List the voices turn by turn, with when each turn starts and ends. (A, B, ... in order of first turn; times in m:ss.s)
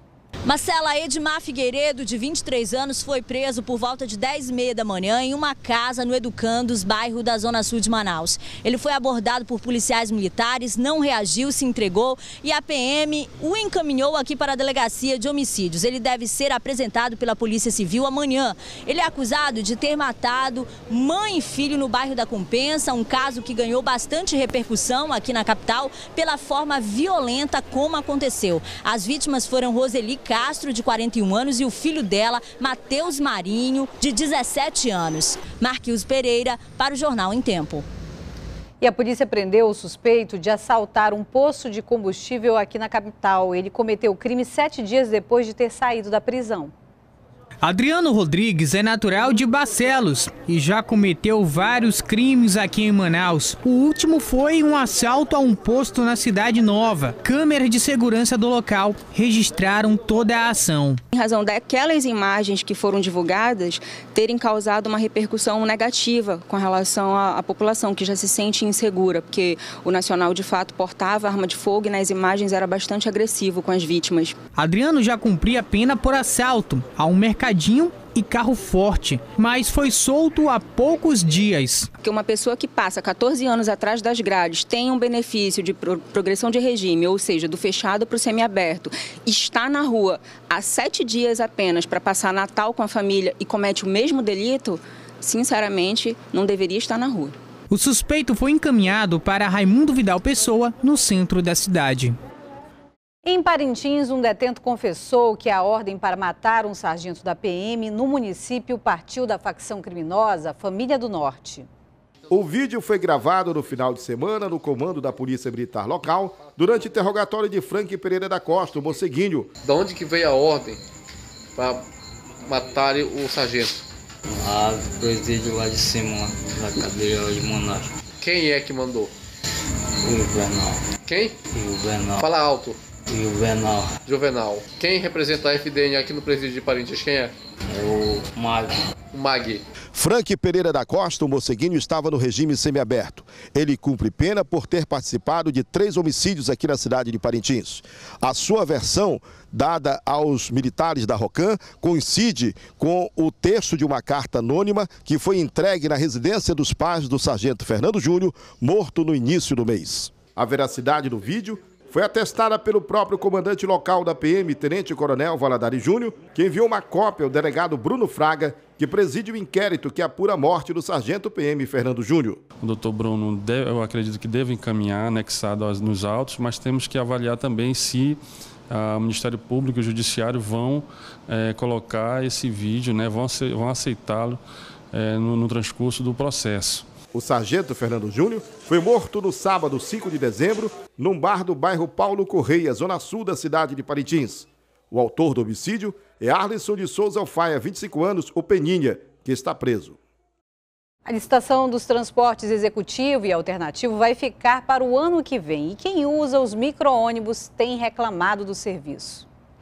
0:00.5-0:37.8 A
0:38.8-0:46.7 B
0:47.6-1:01.0 C
1:01.2-1:14.3 D
1:14.6-1:21.9 C
1:22.0-1:37.3 D
1:37.7-1:42.2 C
1:43.2-1:51.7 B
1:52.3-1:59.5 E
1:59.7-2:00.8 F
2:01.6-2:01.8 F
2:02.5-2:03.8 F
2:04.4-2:07.9 G
2:08.2-2:09.1 F
2:10.1-2:10.8 G
2:11.0-2:11.3 F
2:11.5-2:12.2 G
2:12.2-2:12.8 F
2:13.1-2:13.9 G
2:14.1-2:17.3 F
2:17.7-2:18.7 G
2:19.1-2:19.6 F
2:19.9-2:52.4 E
2:52.6-2:58.2 H
2:58.7-3:04.4 H
3:04.9-3:06.9 H
3:07.1-3:20.0 E
3:21.1-3:29.2 B